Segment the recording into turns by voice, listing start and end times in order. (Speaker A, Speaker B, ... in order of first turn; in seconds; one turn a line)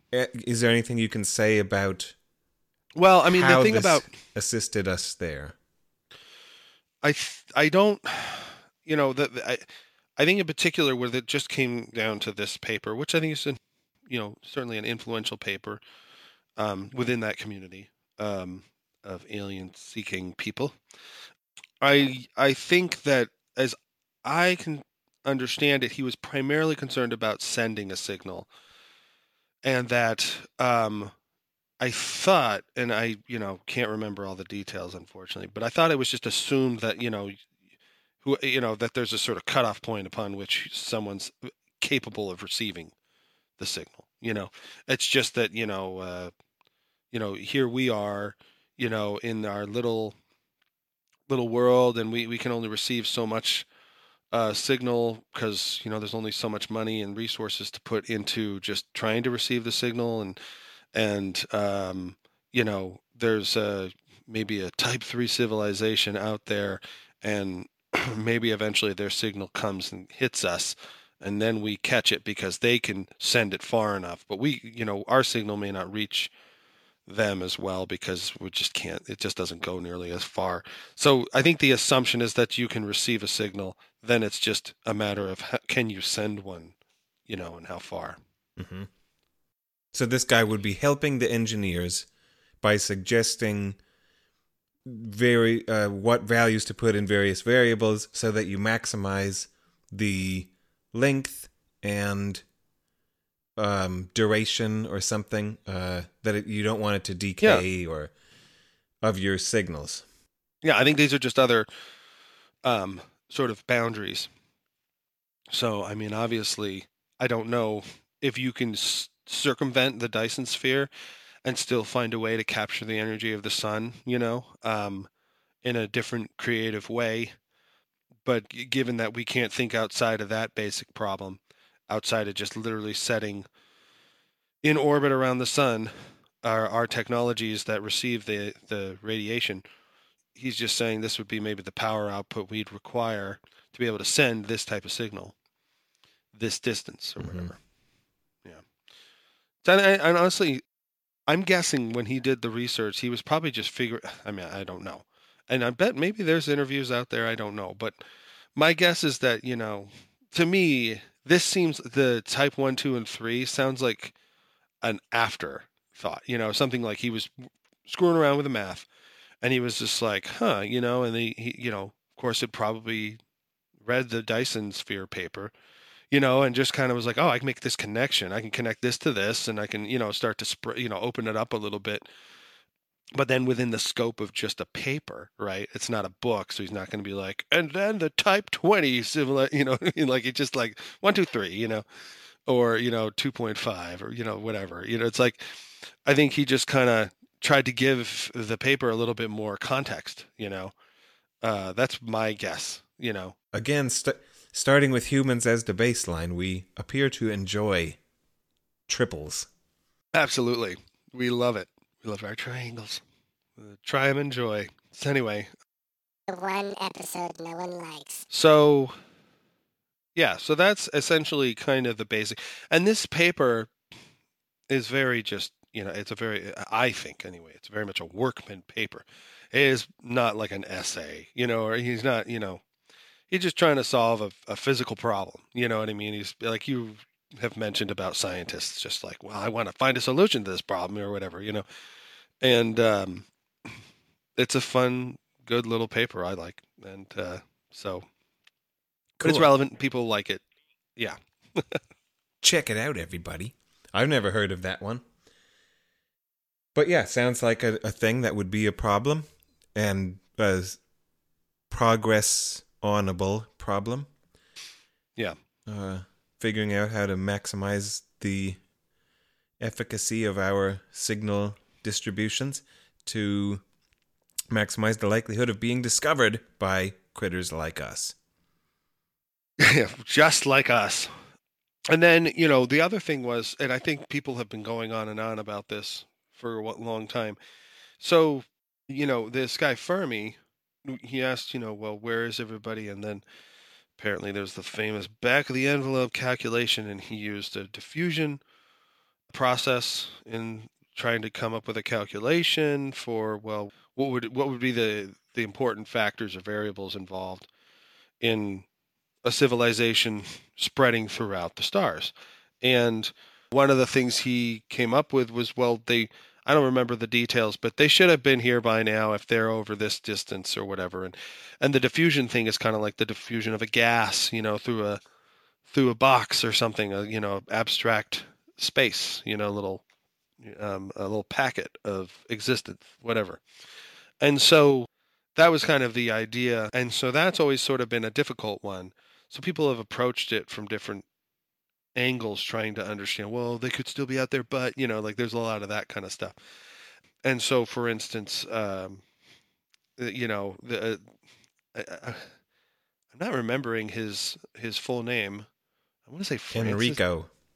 Speaker A: 0.1-2.2
Speaker B: 3.0-4.0
Speaker A: 3.3-5.6
Speaker B: 7.0-9.6
Speaker B: 10.2-15.8
Speaker B: 16.6-20.8
Speaker B: 21.8-28.5
Speaker B: 29.6-31.1
Speaker B: 31.8-37.4
Speaker B: 38.2-42.9
Speaker B: 43.6-46.3
Speaker B: 47.1-50.2
Speaker B: 51.3-53.7
Speaker B: 54.3-60.4
Speaker B: 61.0-76.3
Speaker B: 77.1-86.8
Speaker B: 87.3-88.2
Speaker A: 88.6-88.9
Speaker A: 89.9-92.1
Speaker A: 92.6-93.8
Speaker A: 94.8-102.4
Speaker A: 103.6-108.1
Speaker A: 109.0-110.0
Speaker B: 110.6-111.7
Speaker B: 112.7-114.3
Speaker B: 115.5-120.9
Speaker B: 121.5-125.1
Speaker B: 125.6-127.3
Speaker B: 128.2-133.5
Speaker B: 134.6-139.6
Speaker B: 140.3-145.3
Speaker B: 146.3-147.6
Speaker A: 147.2-147.5
Speaker B: 149.7-150.6
Speaker B: 151.3-158.0
Speaker B: 158.6-164.1
Speaker B: 164.8-167.3
Speaker B: 167.8-168.9
Speaker B: 169.4-173.2
Speaker B: 173.8-175.5
Speaker B: 176.1-182.1
Speaker B: 183.1-191.8
Speaker B: 192.5-195.4
Speaker B: 196.1-200.7
Speaker B: 201.4-203.4
Speaker A: 203.5-208.0
Speaker A: 208.9-209.5
Speaker B: 210.1-213.0
Speaker B: 213.6-215.5
Speaker C: 216.3-218.2
Speaker B: 218.3-218.9
Speaker B: 220.2-223.7
Speaker B: 224.7-232.6
Speaker B: 233.3-241.7
Speaker B: 242.4-243.3
Speaker B: 244.4-248.1
Speaker A: 249.2-249.5
Speaker B: 249.2-250.4
Speaker B: 251.0-251.8
Speaker A: 252.4-255.0
Speaker A: 256.8-260.8
Speaker A: 261.7-264.1
Speaker A: 265.7-268.6
Speaker A: 269.6-273.6
Speaker A: 274.5-278.2
Speaker B: 279.6-281.1
Speaker B: 281.9-287.4
Speaker B: 288.0-293.2
Speaker B: 294.0-298.4
Speaker B: 299.3-307.5
Speaker B: 308.2-308.7
Speaker B: 309.2-325.0
Speaker B: 325.7-329.8
Speaker B: 330.4-333.4
Speaker B: 334.2-341.1
Speaker B: 341.9-346.4
Speaker B: 347.2-349.0
Speaker B: 350.0-351.1
Speaker B: 351.8-352.3
Speaker B: 353.1-355.5
Speaker B: 356.1-357.0
Speaker A: 356.5-357.3